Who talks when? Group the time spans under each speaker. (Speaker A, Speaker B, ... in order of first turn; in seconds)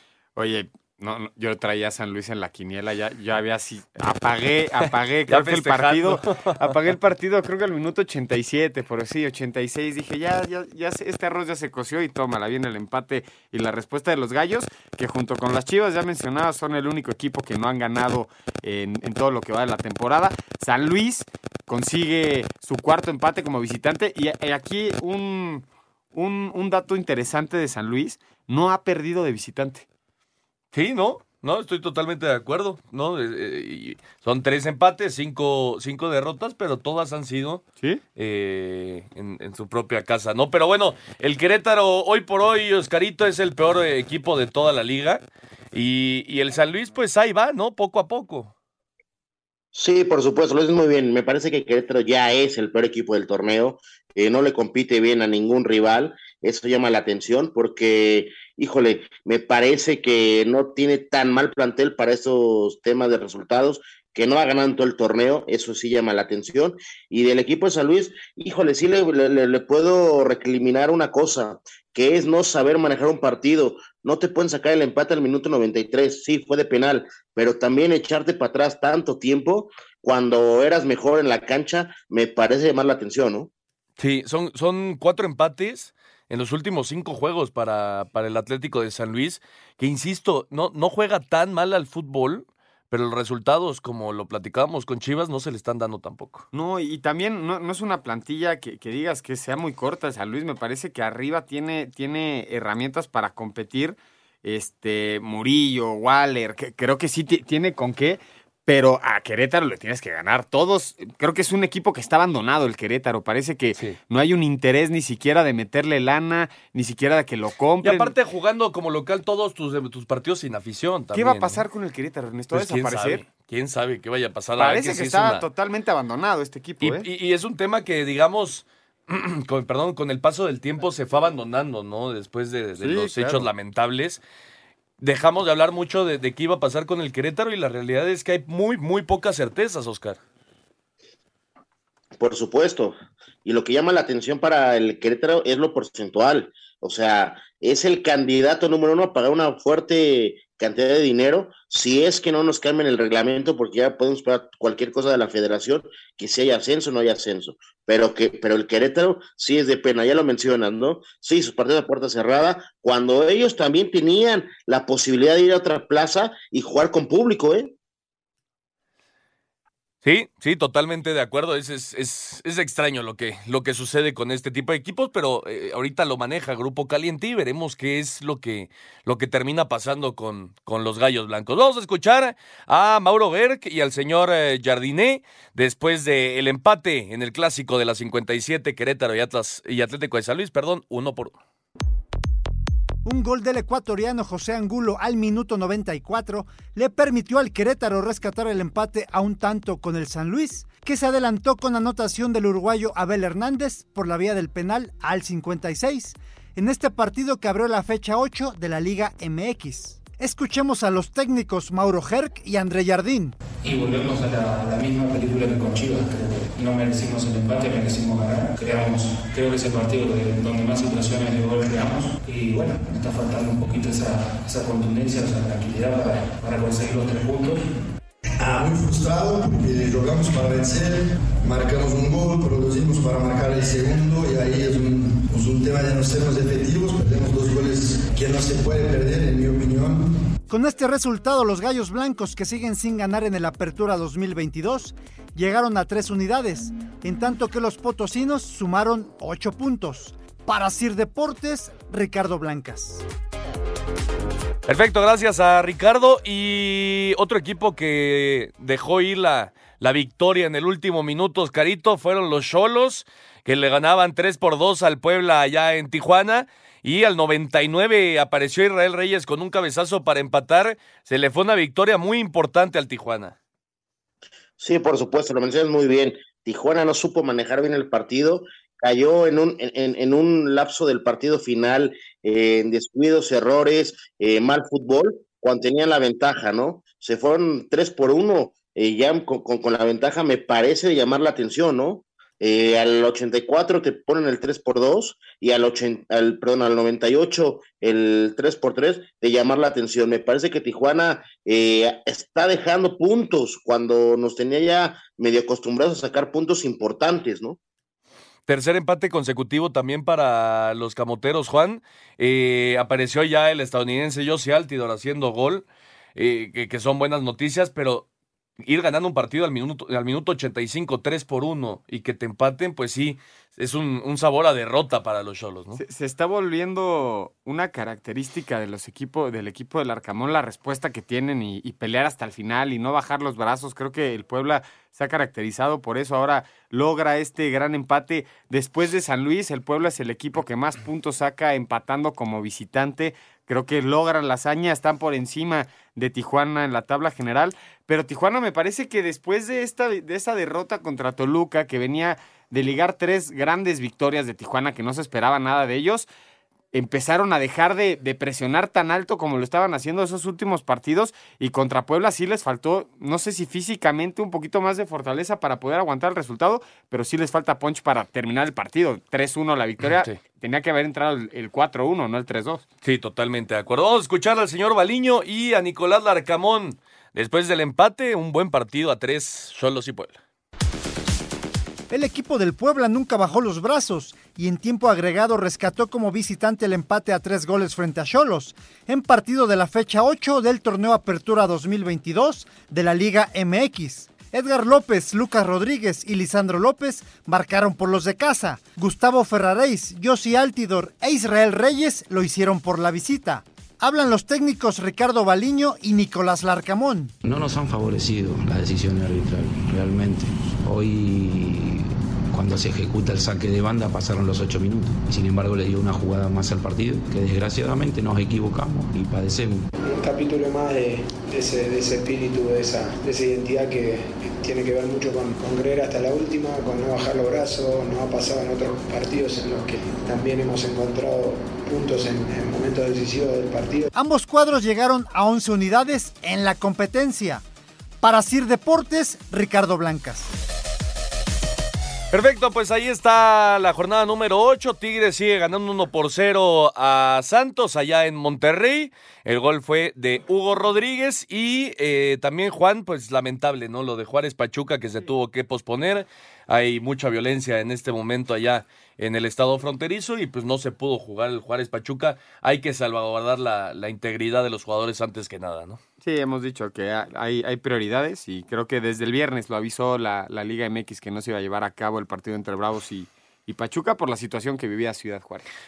Speaker A: 0.4-29.9, 96.5-118.1, 121.1-123.2, 124.6-127.1, 132.8-133.5, 325.7-356.1, 356.7-372.6, 466.0-475.4
Speaker B: 5.3-6.8, 30.7-37.6, 38.2-48.5, 84.0-96.5, 117.8-121.6, 122.5-125.5, 126.8-134.2, 135.0-140.2, 170.0-191.4, 254.7-273.4, 308.5-318.1, 318.6-325.8, 372.8-380.2, 442.1-465.8
Speaker C: 49.7-83.5, 142.2-167.7, 274.6-307.6
Speaker D: 193.0-213.4, 240.5-253.0, 381.9-407.1, 433.9-437.4, 438.0-440.3
Speaker E: 213.6-227.6
Speaker F: 228.4-240.1
Speaker G: 407.2-419.7
Speaker H: 419.9-433.9